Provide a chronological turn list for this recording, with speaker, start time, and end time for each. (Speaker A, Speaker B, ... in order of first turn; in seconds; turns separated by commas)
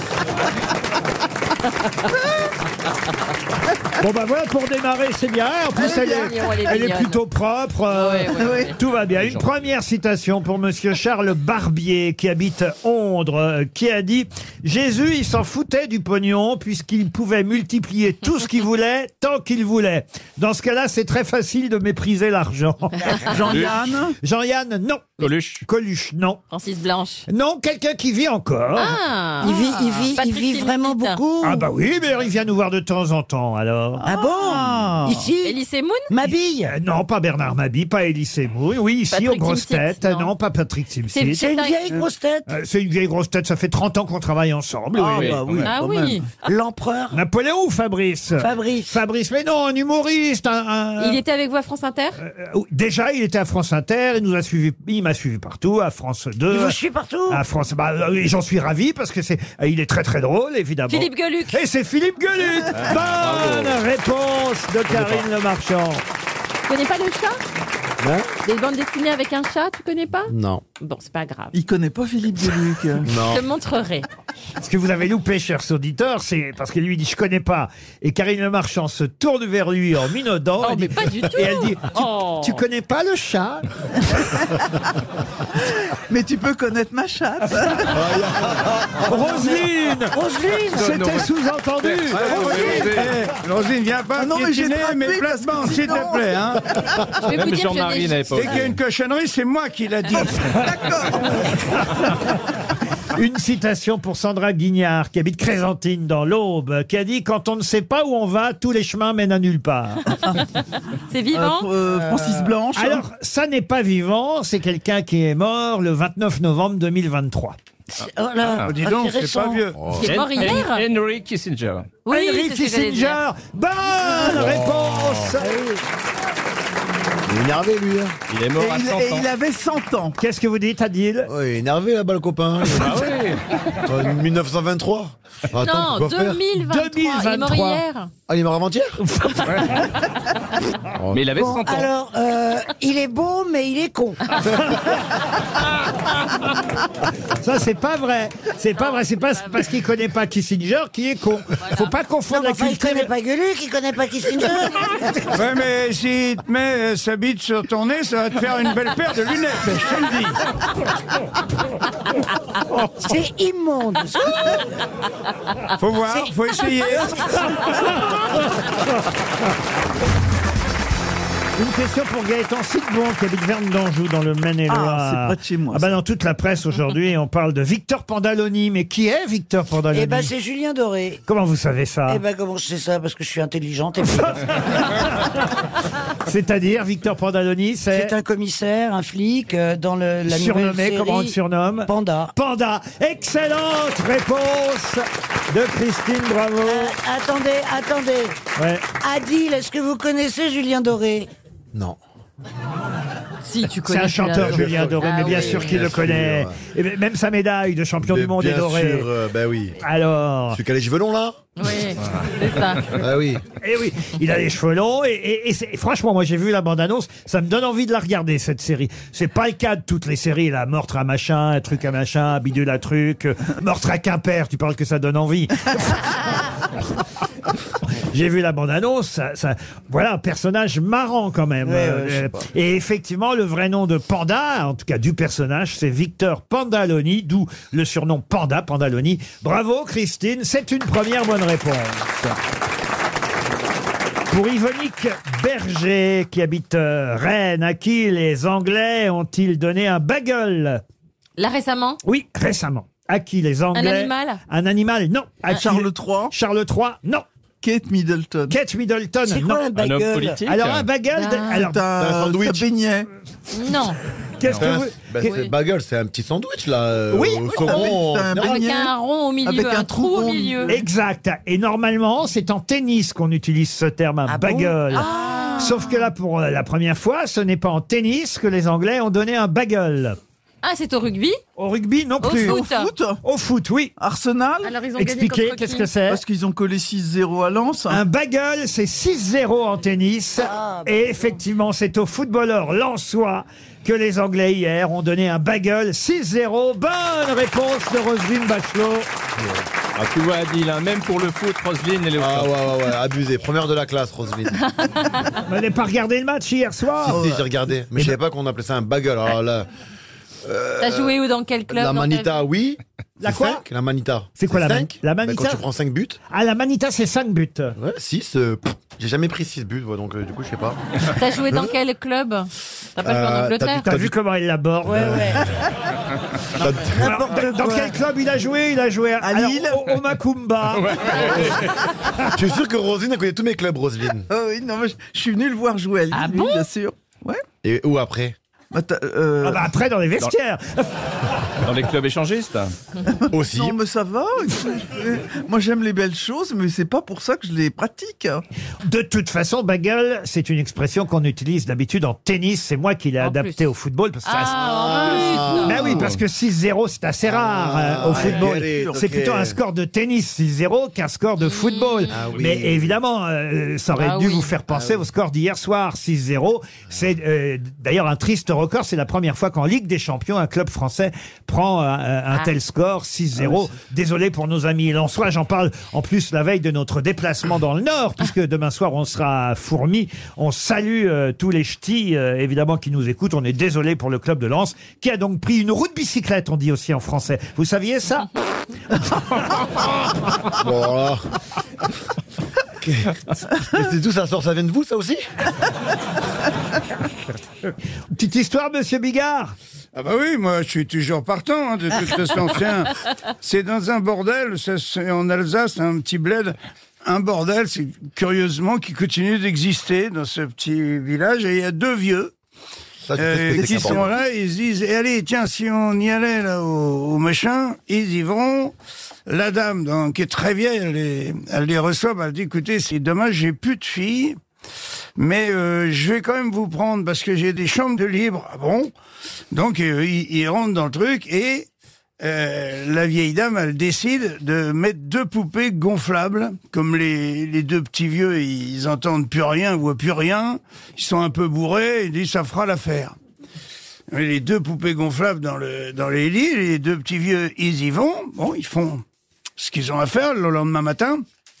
Speaker A: 4.0-26.4, Speaker B: 5.8-6.3, Speaker C: 5.8-7.2, Speaker C: 7.9-8.7, Speaker B: 8.3-8.7, Speaker B: 23.2-24.2, Speaker D: 25.2-25.6, Speaker C: 26.5-27.2, Speaker A: 27.3-29.0, Speaker C: 28.8-31.2, Speaker E: 29.4-31.7, Speaker A: 31.4-34.0, Speaker B: 34.0-35.3, Speaker E: 34.0-35.6, Speaker C: 35.4-36.1, Speaker E: 36.1-36.7, Speaker A: 36.7-41.5, Speaker C: 39.1-40.3, Speaker C: 41.1-41.9, Speaker E: 41.4-42.5, Speaker A: 42.5-45.4, Speaker B: 44.9-46.3, Speaker D: 45.1-45.7, Speaker C: 45.6-46.2, Speaker E: 46.4-47.2, Speaker A: 47.1-51.2, Speaker E: 48.4-48.9, Speaker C: 51.0-52.2, Speaker A: 52.2-56.8, Speaker E: 56.5-57.4, Speaker A: 57.3-66.0, Speaker C: 60.9-61.6, Speaker D: 62.7-63.8, Speaker C: 66.7-67.4, Speaker F: 68.0-68.3, Speaker C: 68.4-71.5, Speaker F: 70.3-70.6, Speaker B: 71.5-73.1, Speaker F: 73.0-73.4, Speaker C: 73.1-74.0, Speaker A: 74.6-83.6, Speaker C: 80.6-82.6, Speaker B: 86.1-88.0, Speaker F: 87.9-89.0, Speaker A: 89.0-90.2, Speaker E: 89.1-89.6, Speaker E: 90.1-91.0, Speaker D: 90.8-91.3, Speaker A: 90.8-92.9, Speaker D: 91.8-93.2, Speaker G: 92.1-96.8, Speaker B: 94.1-96.4, Speaker C: 97.2-98.7, Speaker D: 97.3-98.8, Speaker G: 98.3-100.6, Speaker B: 100.6-101.3, Speaker A: 103.1-110.2, Speaker C: 111.1-111.7, Speaker B: 111.3-113.0, Speaker E: 111.9-112.5, Speaker A: 112.7-117.6, Speaker E: 117.9-119.6, Speaker G: 118.6-119.8, Speaker F: 119.7-120.1, Speaker C: 120.0-120.8, Speaker D: 120.0-122.0, Speaker C: 122.0-123.2, Speaker A: 122.1-125.5, Speaker F: 124.5-124.8, Speaker E: 125.4-125.8, Speaker F: 127.2-128.2, Speaker D: 128.3-129.3, Speaker B: 128.5-130.2, Speaker A: 130.2-131.3, Speaker F: 131.2-133.2, Speaker D: 132.7-133.4, Speaker F: 133.8-136.4, Speaker C: 135.6-138.1, Speaker A: 136.6-137.8, Speaker F: 138.3-139.0, Speaker A: 139.0-139.8, Speaker F: 140.9-141.2, Speaker D: 141.1-141.9, Speaker E: 141.3-144.4, Speaker A: 147.4-153.1, Speaker C: 149.0-149.7, Speaker E: 152.3-155.3, Speaker G: 155.3-160.4, Speaker E: 163.0-164.6, Speaker G: 165.8-167.6, Speaker A: 167.7-168.2, Speaker A: 171.6-180.3, Speaker B: 174.7-176.0, Speaker E: 179.9-181.2, Speaker A: 181.3-182.2, Speaker E: 182.1-184.9, Speaker A: 184.2-185.2, Speaker A: 186.2-188.1, Speaker E: 187.9-192.3, Speaker A: 190.2-196.9, Speaker E: 196.7-198.4, Speaker A: 198.6-198.8, Speaker E: 199.0-201.3, Speaker C: 203.4-205.8, Speaker A: 203.8-209.1, Speaker F: 204.4-206.6, Speaker F: 208.0-209.8, Speaker A: 209.8-210.6, Speaker F: 210.5-211.4, Speaker C: 211.6-212.9, Speaker F: 212.9-213.4, Speaker A: 213.6-226.0, Speaker A: 228.1-242.3, Speaker B: 231.7-232.2, Speaker A: 244.3-250.8, Speaker C: 251.4-252.0, Speaker A: 252.0-257.2, Speaker C: 253.7-254.4, Speaker B: 255.5-256.3, Speaker B: 257.6-258.6, Speaker A: 258.5-259.6, Speaker E: 259.2-260.4, Speaker D: 259.7-260.9, Speaker A: 260.4-261.8, Speaker C: 261.2-261.7, Speaker B: 261.6-263.1, Speaker F: 262.0-262.6, Speaker C: 263.5-264.0, Speaker A: 264.4-265.3, Speaker F: 264.5-268.6, Speaker C: 265.2-265.5, Speaker A: 267.1-268.0, Speaker B: 267.4-270.7, Speaker C: 268.4-270.8, Speaker A: 270.7-280.2, Speaker E: 274.3-275.1, Speaker C: 274.9-276.1, Speaker C: 280.6-281.4, Speaker A: 281.6-282.6, Speaker C: 282.2-282.9, Speaker B: 282.4-283.2, Speaker A: 283.2-283.9, Speaker B: 284.0-284.8, Speaker C: 284.6-285.9, Speaker A: 284.9-286.2, Speaker B: 286.1-288.0, Speaker A: 287.9-299.1, Speaker E: 290.4-291.2, Speaker D: 299.9-302.5, Speaker F: 302.1-304.6, Speaker A: 305.5-307.2, Speaker F: 307.0-309.7, Speaker B: 307.0-307.5, Speaker F: 310.4-311.1, Speaker C: 310.8-312.3, Speaker F: 311.7-316.2, Speaker A: 313.2-313.6, Speaker A: 314.4-315.6, Speaker A: 316.3-317.7, Speaker F: 317.8-320.8, Speaker C: 321.1-323.9, Speaker F: 321.5-321.7, Speaker F: 323.0-324.1, Speaker A: 323.9-325.2, Speaker E: 324.9-325.5, Speaker F: 326.6-327.1, Speaker E: 326.6-327.9, Speaker A: 327.0-331.5, Speaker B: 329.2-330.0, Speaker D: 330.8-331.6, Speaker F: 331.2-331.5, Speaker F: 332.3-334.3, Speaker B: 334.3-337.4, Speaker C: 336.2-336.6, Speaker F: 337.6-338.3, Speaker B: 338.7-339.7, Speaker A: 339.4-340.9, Speaker D: 341.6-342.7, Speaker F: 343.3-343.8, Speaker B: 343.4-348.4, Speaker A: 348.8-388.3, Speaker C: 353.2-353.6, Speaker C: 354.2-355.8, Speaker F: 354.9-356.1, Speaker D: 355.9-356.2, Speaker F: 357.2-359.6, Speaker B: 358.0-359.0, Speaker C: 361.4-362.1, Speaker F: 362.1-363.0, Speaker C: 364.0-364.5, Speaker F: 390.6-391.2, Speaker F: 392.8-395.2, Speaker A: 398.1-399.5, Speaker G: 399.9-412.3, Speaker F: 413.0-414.1, Speaker G: 413.1-418.7, Speaker G: 419.3-424.4, Speaker G: 425.2-428.9, Speaker G: 429.5-431.7, Speaker G: 432.2-443.1, Speaker G: 444.1-449.0, Speaker G: 449.6-451.2